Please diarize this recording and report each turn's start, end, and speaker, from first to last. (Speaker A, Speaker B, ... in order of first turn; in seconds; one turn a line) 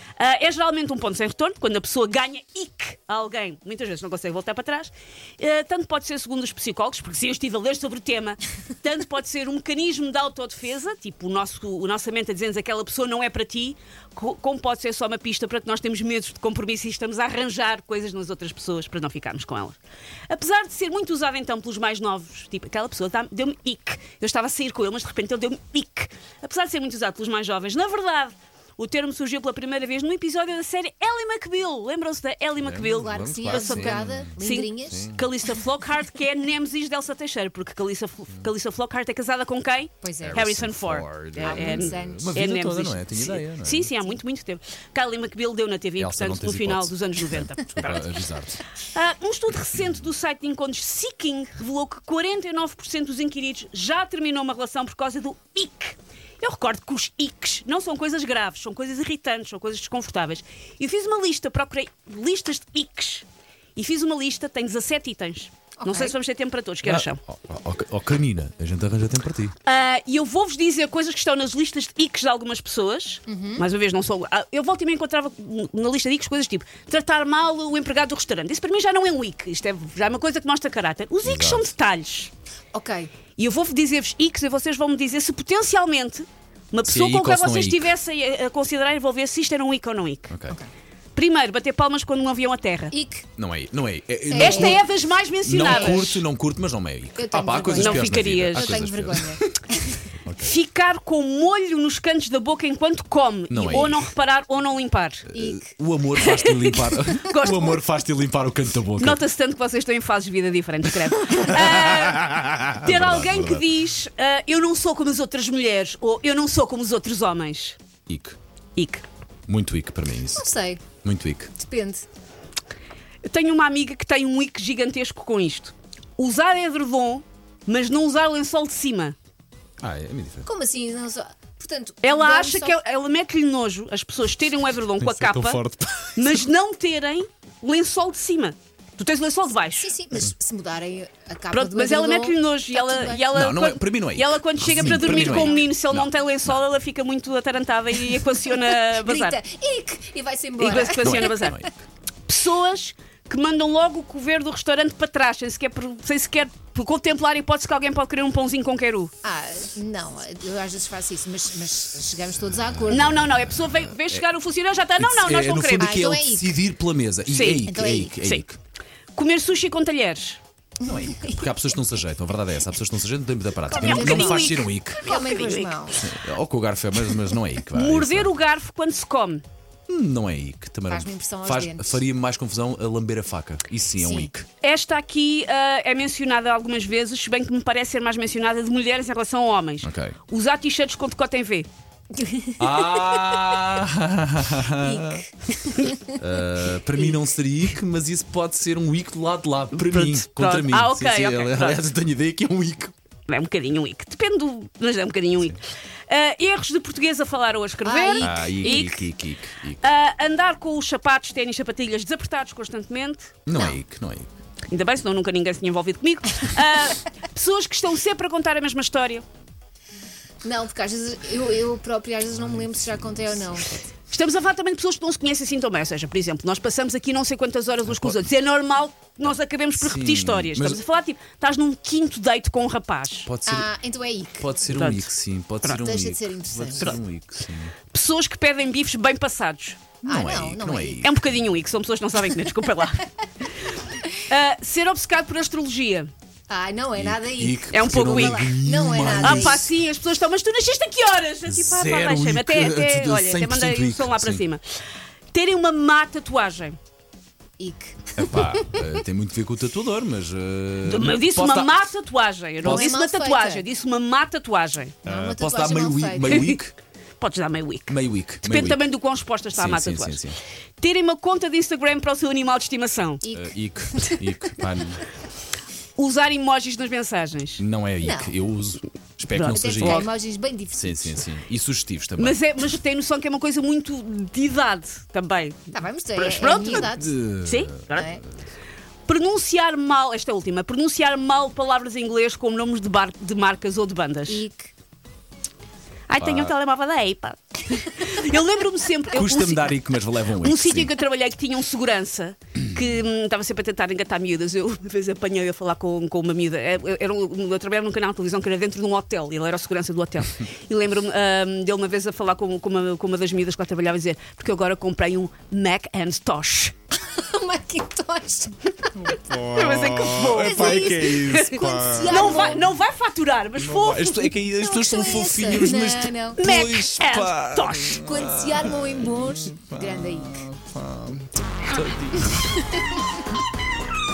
Speaker A: 0.2-19.8
Speaker A: 20.3-48.2
Speaker B: 32.6-35.3
Speaker C: 33.0-35.1
Speaker C: 40.0-40.5
Speaker B: 40.2-43.9
Speaker C: 41.4-42.3
Speaker C: 43.2-44.2
Speaker B: 46.0-48.6
Speaker A: 48.8-63.2
Speaker A: 63.8-67.2
Speaker C: 65.8-66.2
Speaker B: 66.8-69.5
Speaker A: 69.7-82.3
Speaker C: 73.3-73.7
Speaker B: 81.2-81.7
Speaker C: 82.7-83.1
Speaker A: 83.4-90.3
Speaker B: 86.8-87.9
Speaker B: 90.3-90.6
Speaker A: 91.2-92.9
Speaker C: 92.9-93.2
Speaker B: 93.4-94.9
Speaker C: 94.3-94.8
Speaker A: 94.3-96.2
Speaker B: 95.4-100.5
Speaker C: 95.6-96.0
Speaker C: 97.2-100.1
Speaker A: 97.7-99.1
Speaker A: 100.4-105.3
Speaker B: 103.5-104.1
Speaker B: 105.3-109.2
Speaker C: 105.3-105.7
Speaker A: 106.2-107.8
Speaker A: 109.0-117.8
Speaker B: 110.8-113.7
Speaker B: 118.1-118.4
Speaker A: 118.8-119.0
Speaker B: 119.5-121.5
Speaker C: 120.3-120.8
Speaker C: 121.6-122.0
Speaker A: 123.2-129.2
Speaker B: 129.8-130.5
Speaker C: 130.4-132.8
Speaker A: 132.0-135.6
Speaker B: 135.0-136.5
Speaker A: 136.2-139.9
Speaker C: 139.7-143.2
Speaker A: 141.5-149.4
Speaker B: 143.3-146.7
Speaker C: 144.7-145.6
Speaker C: 148.7-151.6
Speaker A: 150.6-151.6
Speaker B: 150.9-151.8
Speaker A: 152.3-159.1
Speaker C: 159.2-163.3
Speaker A: 162.9-166.1
Speaker B: 163.2-164.3
Speaker B: 165.0-168.6
Speaker C: 165.8-166.6
Speaker A: 167.3-168.4
Speaker C: 167.7-168.2
Speaker A: 169.2-170.4
Speaker B: 170.8-175.1
Speaker C: 170.9-171.5
Speaker A: 173.7-175.8
Speaker C: 173.7-176.1
Speaker B: 176.0-178.3
Speaker A: 177.7-179.4
Speaker B: 179.9-184.5
Speaker C: 180.9-182.0
Speaker C: 184.0-184.3
Speaker A: 184.6-191.7
Speaker B: 189.8-190.2
Speaker C: 192.3-192.8
Speaker B: 192.6-202.9
Speaker C: 194.8-196.0
Speaker A: 199.9-201.8
Speaker A: 203.3-209.1
Speaker C: 207.8-208.9
Speaker B: 208.2-209.9
Speaker A: 209.8-213.3
Speaker B: 213.5-214.3
Speaker A: 214.7-219.2
Speaker C: 220.4-223.8
Speaker B: 222.4-223.7
Speaker A: 224.1-233.3
Speaker B: 227.9-228.2
Speaker B: 229.8-230.8
Speaker B: 233.3-233.7
Speaker C: 233.5-234.5
Speaker B: 234.4-237.8
Speaker A: 234.7-235.1
Speaker C: 235.7-237.0
Speaker A: 236.8-237.0
Speaker A: 237.9-239.8
Speaker B: 240.0-241.3
Speaker C: 240.0-241.1
Speaker A: 241.0-243.1
Speaker A: 243.7-246.1
Speaker C: 246.5-249.7
Speaker B: 247.0-249.7
Speaker A: 247.7-248.5
Speaker A: 249.2-254.6
Speaker B: 251.5-254.4
Speaker A: 255.3-256.8
Speaker C: 257.6-258.8
Speaker B: 258.2-261.9
Speaker A: 260.9-265.0
Speaker B: 262.6-262.9
Speaker C: 262.6-263.6
Speaker C: 265.0-266.6
Speaker B: 265.1-266.7
Speaker A: 267.2-270.2
Speaker B: 267.9-268.8
Speaker B: 269.5-270.4
Speaker A: 270.8-273.2
Speaker C: 273.2-274.2
Speaker B: 273.3-275.1
Speaker A: 276.0-277.6
Speaker B: 277.6-280.1
Speaker C: 278.0-278.3
Speaker A: 279.3-280.1
Speaker C: 279.5-281.2
Speaker B: 280.7-282.4
Speaker A: 282.2-288.1
Speaker C: 285.7-287.1
Speaker B: 286.9-288.2
Speaker C: 287.9-288.2
Speaker A: 289.1-294.4
Speaker C: 294.3-294.7
Speaker A: 296.1-299.8
Speaker B: 296.2-296.6
Speaker B: 299.1-300.9
Speaker A: 300.4-316.7
Speaker C: 317.0-319.5
Speaker B: 319.3-322.6
Speaker A: 319.5-324.4
Speaker C: 320.2-322.7
Speaker B: 323.6-332.6
Speaker C: 324.5-326.4
Speaker A: 326.4-328.0
Speaker C: 328.0-330.5
Speaker C: 332.5-332.9